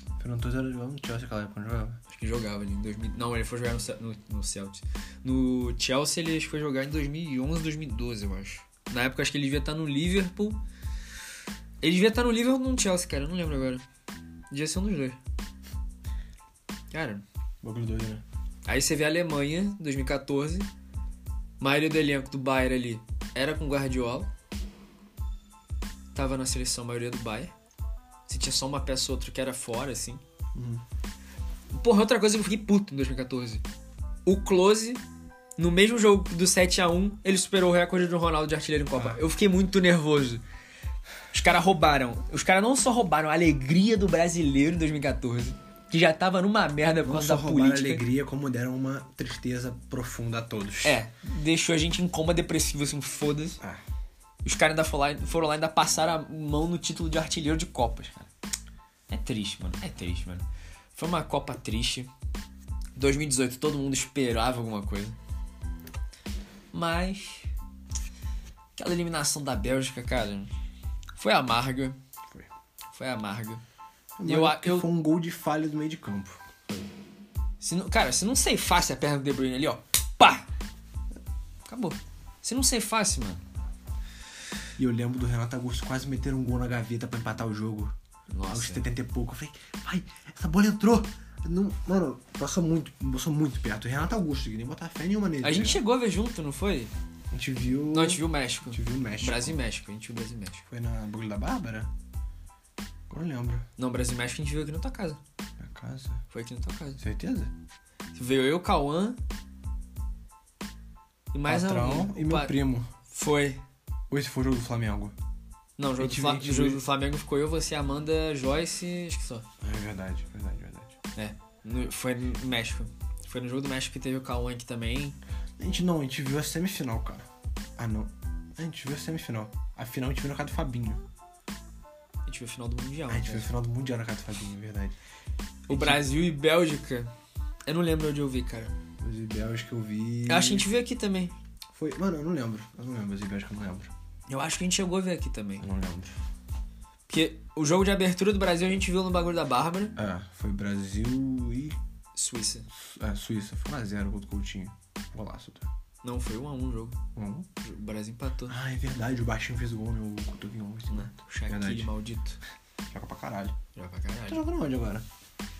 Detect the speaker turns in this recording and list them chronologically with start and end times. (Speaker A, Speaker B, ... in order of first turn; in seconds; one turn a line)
Speaker A: 0.2-2.0
Speaker B: 2.1-10.6
Speaker B: 11.8-13.8
Speaker B: 14.5-15.2
Speaker B: 16.9-17.2
Speaker A: 17.6-18.2
Speaker B: 18.7-20.7
Speaker B: 21.6-24.3
Speaker B: 26.1-27.5
Speaker B: 28.3-30.2
Speaker A: 30.5-30.8
Speaker B: 31.7-33.6
Speaker B: 34.2-35.0
Speaker B: 35.6-40.4
Speaker B: 41.3-48.0
Speaker A: 47.0-51.0
Speaker B: 50.8-53.6
Speaker B: 54.4-58.3
Speaker B: 59.1-62.1
Speaker B: 63.0-65.2
Speaker B: 66.7-67.5
Speaker B: 68.8-70.5
Speaker B: 71.2-72.0
Speaker B: 72.9-73.6
Speaker A: 74.2-76.7
Speaker B: 74.2-74.9
Speaker B: 77.6-80.5
Speaker B: 81.7-83.4
Speaker A: 84.8-88.0
Speaker B: 88.3-88.9
Speaker A: 88.5-95.8
Speaker B: 95.4-96.9
Speaker A: 97.3-99.6
Speaker B: 97.9-100.7
Speaker A: 100.7-101.9
Speaker A: 103.1-103.7
Speaker B: 103.8-105.2
Speaker A: 105.6-106.2
Speaker B: 106.3-107.0
Speaker A: 107.0-107.5
Speaker B: 108.2-109.2
Speaker B: 111.3-112.6
Speaker A: 111.5-112.9
Speaker B: 113.1-113.6
Speaker A: 114.1-115.2
Speaker B: 115.8-119.5
Speaker A: 116.0-116.8
Speaker A: 119.6-121.0
Speaker B: 121.2-125.2
Speaker A: 125.6-131.0
Speaker B: 132.3-133.5
Speaker A: 133.1-135.0
Speaker B: 135.7-137.1
Speaker A: 135.7-136.0
Speaker B: 137.7-138.8
Speaker A: 139.0-140.7
Speaker B: 140.3-141.3
Speaker A: 141.7-143.9
Speaker B: 144.3-145.7
Speaker A: 145.6-146.1
Speaker B: 147.1-150.0
Speaker A: 150.0-151.8
Speaker B: 152.2-152.7
Speaker A: 152.8-155.7
Speaker B: 156.0-157.0
Speaker A: 157.2-157.5
Speaker B: 157.6-158.6
Speaker A: 158.5-161.9
Speaker B: 160.9-162.4
Speaker A: 162.9-163.6
Speaker B: 163.8-164.4
Speaker A: 164.3-165.1